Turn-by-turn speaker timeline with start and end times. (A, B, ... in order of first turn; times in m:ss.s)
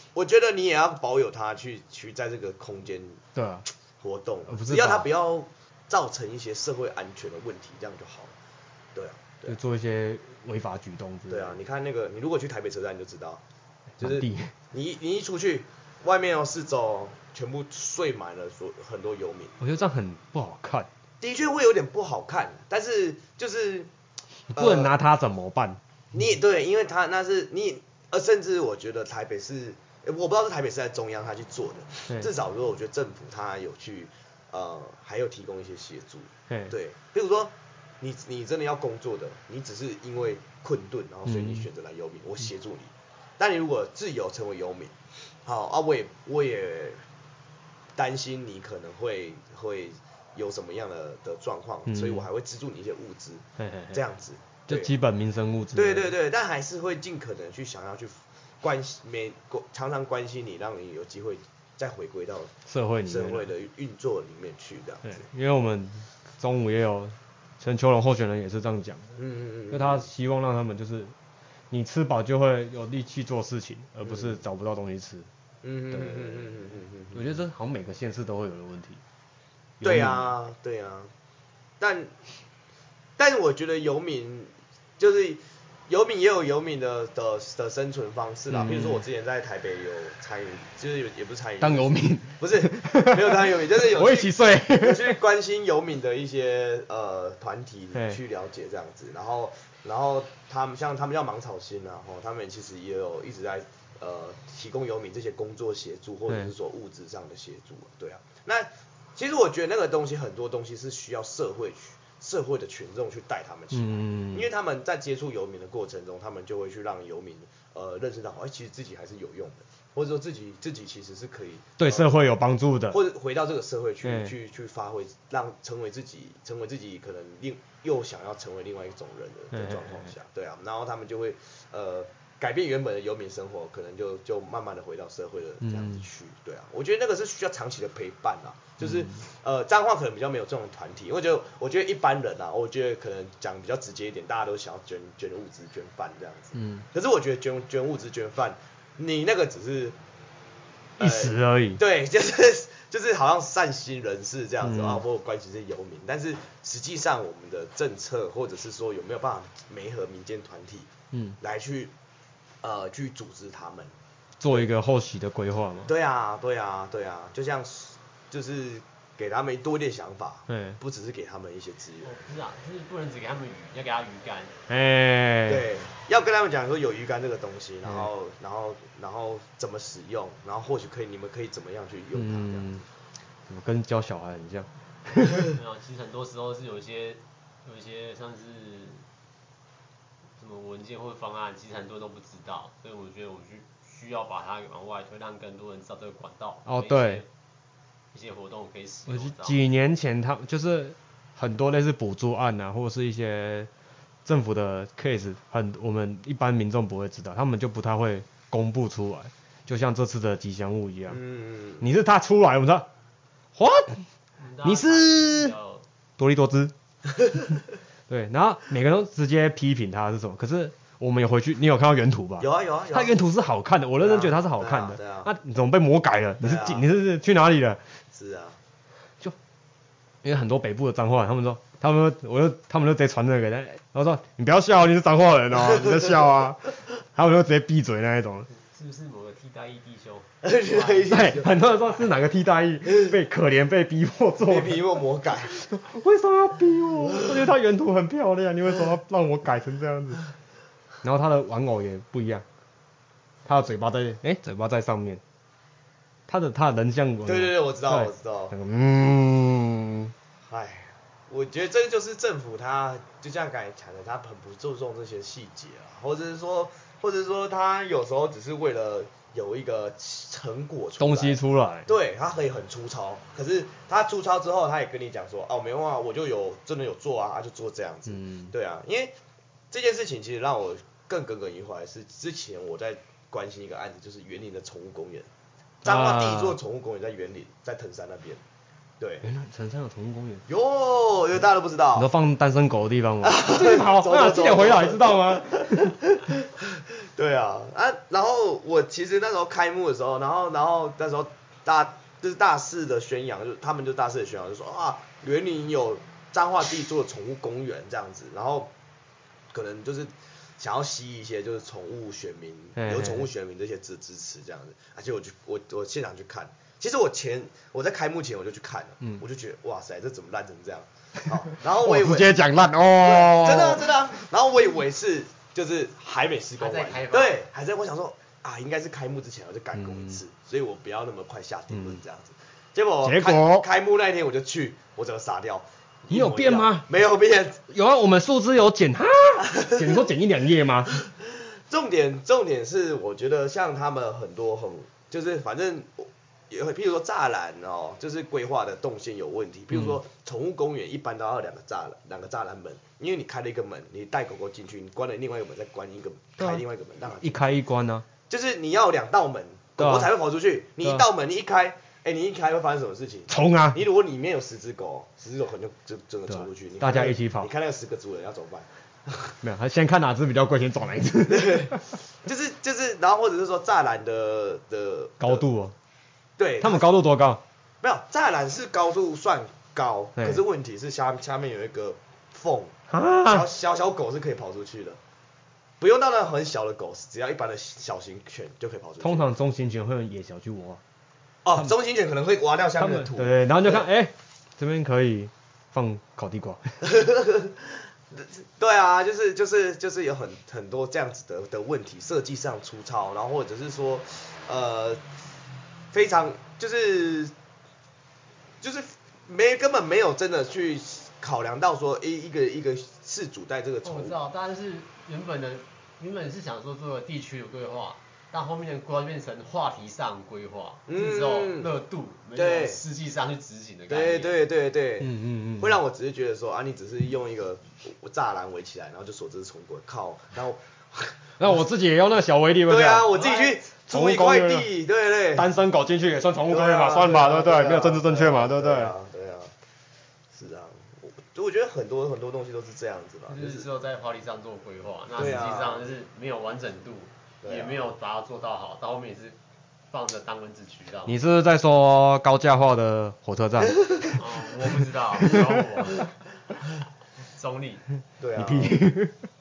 0:00.1-0:03.2 A
0:03.3-0:03.6 B
0:04.0-0:08.3 A
0:04.5-0:05.1 B
0:08.9-0:09.6 A
0:09.4-0:11.6 B
0:11.3-0:13.4 A
0:14.0-0:14.5 B
0:14.0-0:19.6 A
0:19.6-0:20.9 B
0:21.2-0:23.9 A
0:24.5-0:25.8 B
0:24.5-0:24.9 A
0:26.1-0:47.0 A
0:36.5-0:36.7 B
0:41.2-0:41.7 B
0:48.0-0:54.9 A
0:51.9-0:52.2 B
0:53.6-0:54.0 B
0:54.7-0:56.1 B
0:55.7-1:02.5 A
1:02.7-1:03.5 B
1:03.1-1:05.2 A
1:05.0-1:09.2 B
1:09.2-1:10.1 A
1:09.7-1:11.1 B
1:11.7-1:15.3 B
1:14.0-1:14.4 A
1:15.6-1:17.4 A
1:15.9-1:16.6 B
1:17.1-1:19.0 B
1:19.8-1:20.3 B
1:19.8-1:21.1 A
1:21.8-1:22.1 A
1:23.2-2:02.1 A
1:28.5-1:29.0 B
1:31.6-1:35.2 B
1:53.7-1:54.5 B
2:01.8-2:03.0 B
2:02.9-2:30.0 A
2:04.0-2:04.3 B
2:09.5-2:10.1 B
2:15.6-2:16.0 B
2:18.8-2:19.2 B
2:26.5-2:26.8 B
2:31.0-2:31.8 B
2:31.0-2:40.9 A
2:34.6-2:35.0 B
2:41.4-2:41.9 A
2:42.6-2:43.9 A
2:44.4-2:45.9 B
2:45.9-2:52.1 A
2:50.5-2:50.8 B
2:52.0-2:54.5 C
2:54.7-2:55.6 B
2:55.5-3:02.8 A
3:02.1-3:02.8 B
3:03.5-3:05.4 B
3:05.5-3:09.1 C
3:10.4-3:17.3 C
3:16.6-3:17.2 B
3:18.1-3:19.6 C
3:19.1-3:23.7 B
3:24.2-3:31.2 B
3:31.1-3:31.8 A
3:31.8-3:32.9 B
3:33.6-3:34.0 B
3:34.4-3:35.8 C
3:34.6-3:35.5 B
3:36.2-3:36.7 B
3:38.1-3:47.8 B
3:42.4-3:43.1 A
3:44.0-3:45.3 A
3:46.4-3:46.8 A
3:48.1-3:48.6 A
3:50.2-3:58.5 B
3:55.7-3:56.1 A
3:58.5-4:01.2 C
4:00.4-4:01.5 A
4:01.1-4:04.8 B
4:04.4-4:05.6 A
4:05.5-4:10.2 B
4:11.0-4:12.4 B
4:13.4-4:15.2 B
4:16.3-4:20.1 B
4:17.2-4:18.5 A
4:20.5-4:39.1 A
4:31.0-4:31.9 B
4:38.1-4:38.5 B
4:39.7-4:45.3 A
4:45.8-4:46.6 B
4:45.8-4:48.4 A
4:49.0-4:49.2 A
4:49.2-4:50.4 B
4:50.5-4:52.1 A
4:51.9-4:56.0 B
4:53.2-5:08.7 A
5:09.5-5:22.4 A
5:12.8-5:13.3 B
5:21.7-5:23.9 B
5:23.0-5:37.6 A
5:26.6-5:27.4 C
5:29.7-5:30.2 B
5:31.7-5:32.0 B
5:33.0-5:33.6 B
5:36.1-5:36.9 B
5:37.7-5:40.9 B
5:39.5-5:40.0 A
5:41.0-5:57.6 A
5:49.7-5:50.0 B
5:56.4-5:56.6 B
5:57.2-5:58.0 B
5:58.3-6:09.3 A
5:59.8-6:00.1 B
6:03.3-6:03.8 B
6:06.3-6:07.5 B
6:09.4-6:11.8 B
6:11.3-6:15.4 A
6:15.2-6:15.7 B
6:16.4-6:16.9 A
6:16.6-6:17.4 B
6:17.8-6:25.0 A
6:22.9-6:23.4 B
6:25.8-6:29.3 A
6:29.0-6:30.8 B
6:31.4-6:33.8 A
6:32.8-6:36.8 B
6:36.8-6:45.0 A
6:45.9-6:47.3 A
6:48.6-6:54.2 A
6:53.8-7:04.4 C
7:00.9-7:01.7 A
7:02.3-7:02.8 A
7:03.9-7:11.6 A
7:05.0-7:05.8 B
7:11.4-7:13.1 B
7:12.7-7:15.5 A
7:13.1-7:13.6 C
7:13.9-7:14.7 B
7:15.3-7:18.9 B
7:16.5-7:19.5 A
7:20.3-7:23.7 A
7:23.3-7:29.4 C
7:25.2-7:25.9 A
7:27.4-7:27.8 A
7:29.9-7:31.2 C
7:31.1-7:34.2 B
7:34.1-7:36.1 C
7:37.3-7:37.8 C
7:38.2-7:38.8 A
7:38.4-7:39.2 B